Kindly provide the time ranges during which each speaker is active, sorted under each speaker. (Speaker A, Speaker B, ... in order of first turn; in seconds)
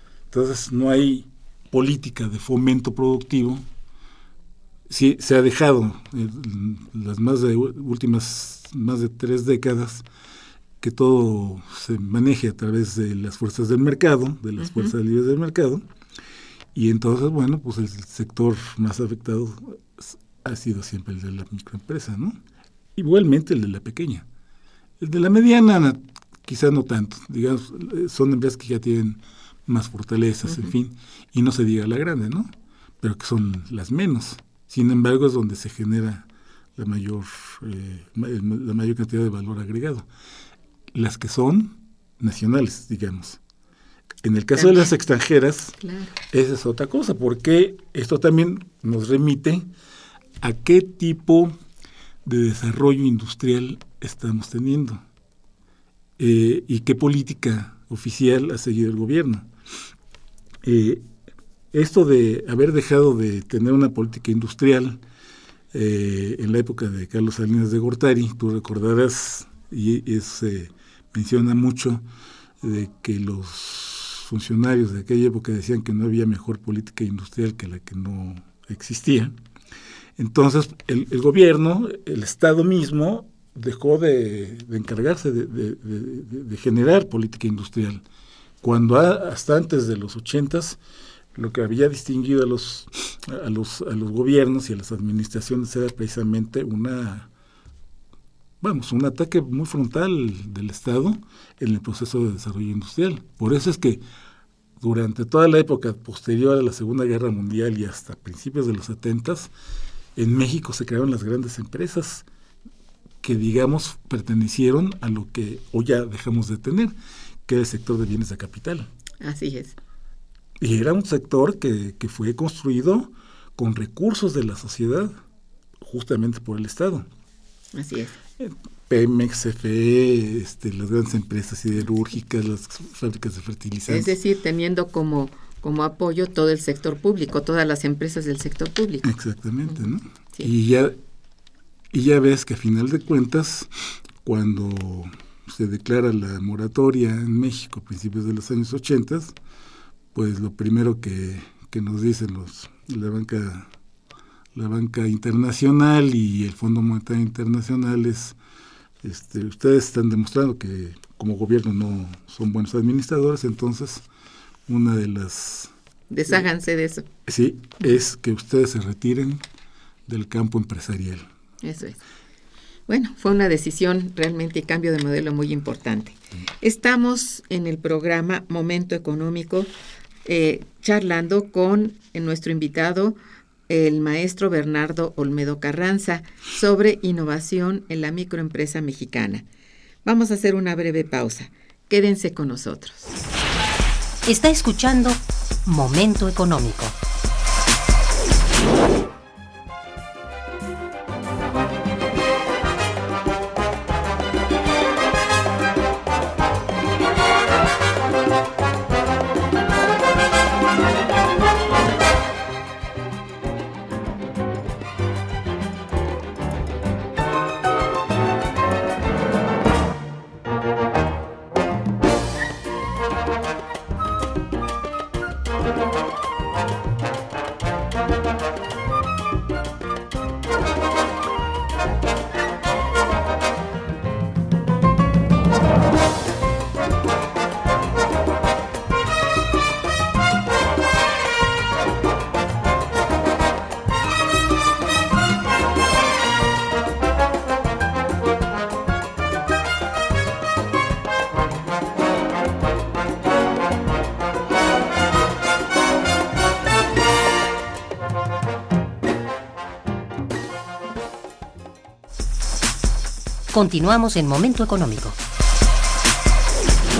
Speaker A: 0.3-3.6, 4.9-10.0, 10.8-15.8, 16.7-22.4, 22.9-24.2, 25.0-40.1, 40.9-43.4, 44.2-45.8, 46.3-49.7, 50.4-51.5, 52.2-55.0, 56.2-59.5, 60.6-61.0, 61.7-65.0, 65.7-72.0, 72.6-79.3, 80.2-88.0, 88.6-90.8, 91.3-97.3, 98.6-104.0, 104.8-109.5, 110.2-112.2, 113.2-116.9, 117.5-118.9, 120.6-125.1, 125.8-127.0, 128.4-134.1, 139.0-140.9, 141.9-149.3, 150.1-153.7, 154.5-158.3, 159.0-164.0, 164.7-165.7, 167.2-169.4, 170.1-171.3
Speaker B: 14.6-14.9, 44.5-44.9, 45.8-46.1, 119.2-119.8, 127.7-128.2, 133.9-139.1, 166.1-167.1, 171.6-172.0, 172.9-179.7, 180.2-183.2, 183.7-189.4, 190.0-193.1
Speaker C: 194.2-196.9, 263.5-265.2